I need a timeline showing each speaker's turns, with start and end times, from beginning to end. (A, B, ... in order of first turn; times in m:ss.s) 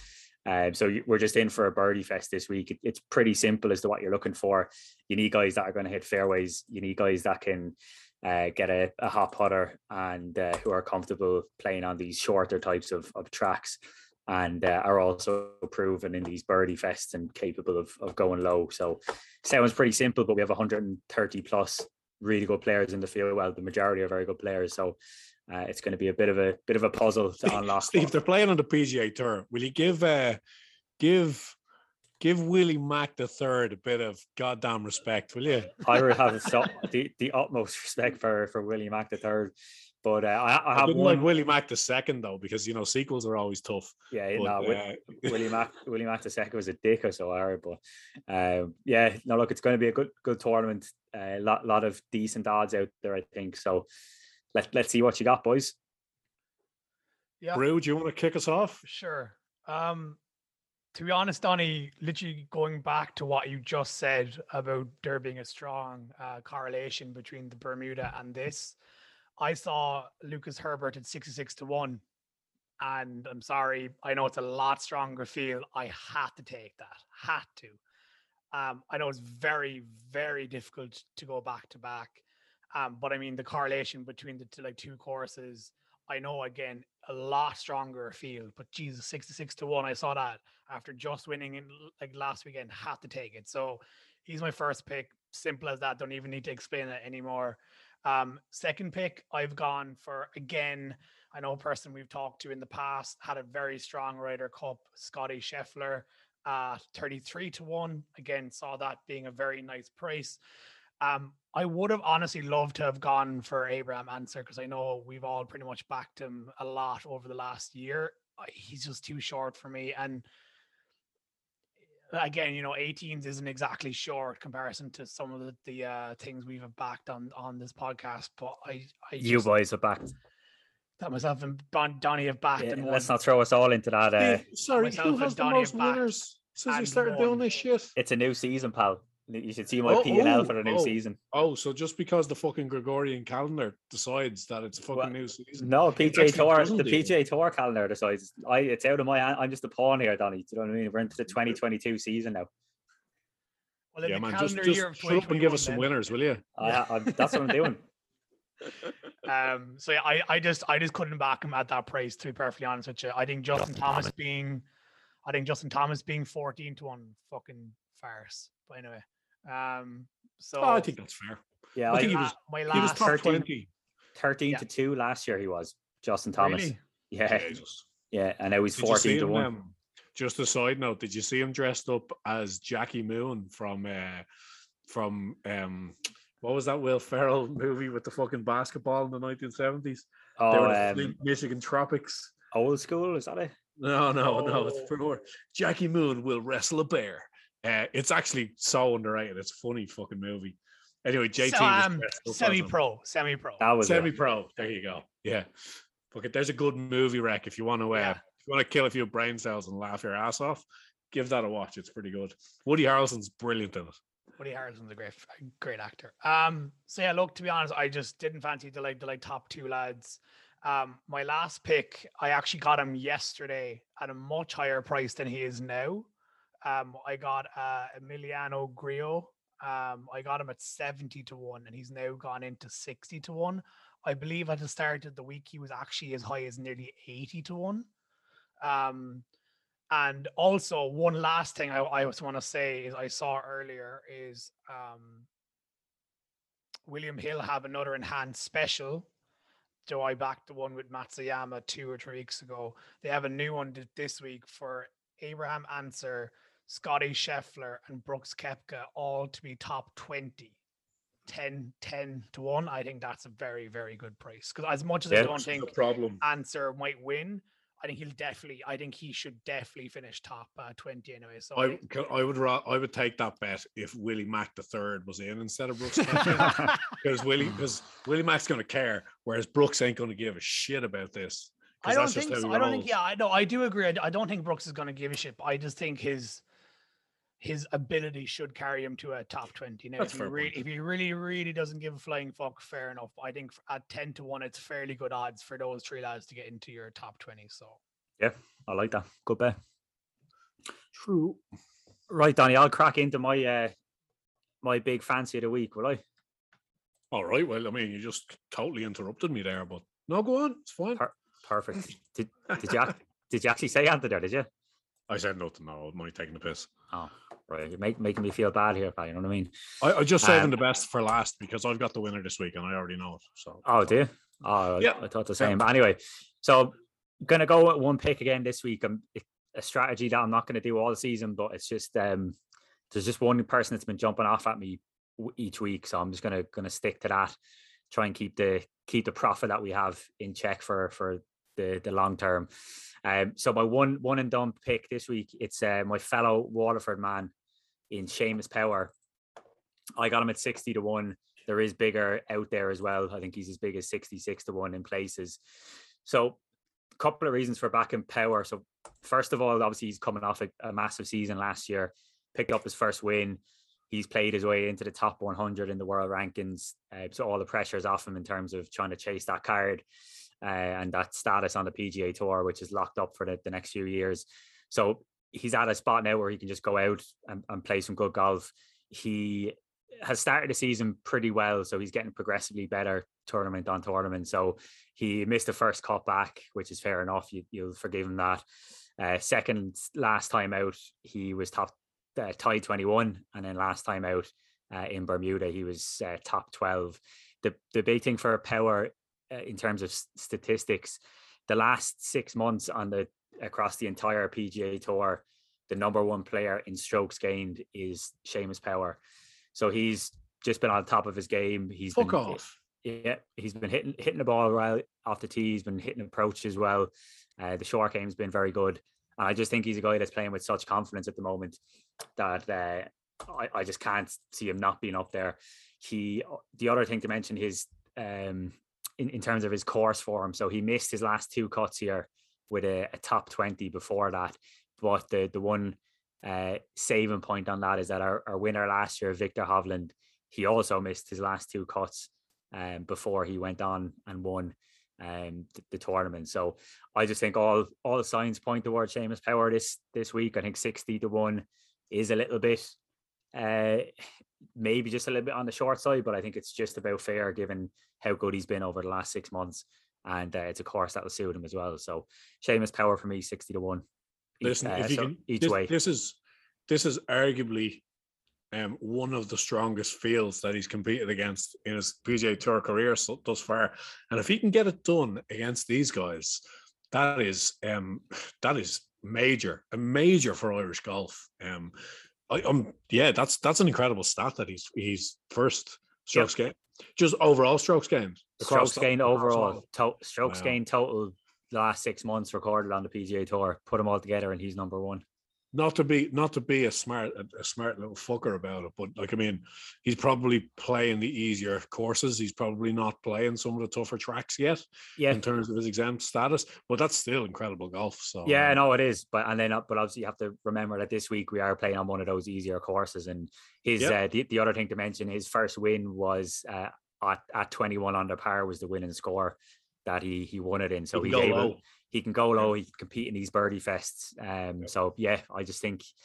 0:00.5-0:25.0 A
0:25.5-0:28.1 A
0:27.5-0:30.4 B
0:31.0-0:31.6 B
0:32.2-0:36.0 B
0:35.8-0:39.5 A
0:40.0-0:41.3 A
0:40.7-0:45.5 B
0:44.1-0:53.9 A
0:54.6-0:55.8 A
0:57.5-0:58.8 B
0:58.9-1:00.2 C
1:00.9-1:08.8 C
1:09.4-1:12.0 C
1:12.8-1:17.8 C
1:18.5-1:22.2 C
1:22.7-1:50.4 C
1:51.0-2:00.2 C
2:02.1-2:09.5 C
2:09.2-2:10.1 A
2:11.0-2:13.1 C
2:12.6-2:14.4 A
2:14.2-2:17.9 B
2:14.8-2:16.1 C
2:16.7-2:17.6 C
2:18.0-2:21.2 A
2:19.8-2:27.2 B
2:24.9-2:32.5 A
2:34.0-2:35.9 C
2:34.1-2:36.5 B
2:36.6-2:37.8 A
2:39.2-2:44.6 C
2:45.3-2:50.9 C
2:50.6-2:53.7 B
2:51.8-2:53.4 A
2:52.0-2:53.2 C
2:54.2-2:57.6 A
2:56.4-2:56.8 C
2:57.3-2:57.8 B
2:58.1-2:59.5 A
2:58.8-3:04.3 B
3:04.9-3:12.3 B
3:10.4-3:11.2 A
3:12.5-3:13.5 A
3:13.8-3:22.7 B
3:14.2-3:14.9 C
3:21.4-3:23.6 C
3:23.6-3:24.1 A
3:23.8-3:25.5 B
3:26.1-3:34.0 B
3:27.9-3:28.2 C
3:34.4-3:46.1 C
3:46.6-3:57.9 C
3:58.6-3:59.2 C
3:59.9-4:05.3 C
4:06.9-4:09.1 C
4:09.9-4:20.6 C
4:21.3-4:31.8 C
4:25.1-4:26.2 B
4:31.6-4:42.9 B
4:41.8-4:46.4 C
4:47.4-4:57.8 C
4:50.0-4:50.6 B
4:58.2-4:59.6 A
5:00.9-5:01.4 B
5:02.1-5:03.7 A
5:04.6-5:06.0 A
5:07.1-5:11.0 B
5:11.0-5:14.5 A
5:15.1-5:16.7 B
5:16.9-5:19.5 A
5:19.8-5:23.7 B
5:20.2-5:20.6 A
5:23.6-5:32.4 A
5:24.8-5:25.6 B
5:32.9-5:37.4 A
5:37.9-5:42.5 A
5:43.0-5:47.3 A
5:47.9-5:48.9 A
5:50.0-5:55.4 A
5:56.0-5:56.4 A
5:57.0-6:03.4 A
6:03.9-6:09.8 A
6:10.4-6:28.4 A
6:29.0-6:49.0 A
6:49.6-7:01.6 A
6:51.9-6:52.6 B
7:02.2-7:32.7 A
7:33.3-7:33.9 A
7:34.6-7:43.8 A
7:44.4-7:45.7 A
7:44.4-7:46.2 B
7:46.7-7:47.8 B
7:48.5-8:01.8 B
8:02.3-8:09.6 B
8:08.4-8:15.0 A
8:10.3-8:10.6 B
8:15.5-8:28.6 B
8:25.0-8:25.2 A
8:28.2-8:45.9 A
8:40.9-8:41.6 B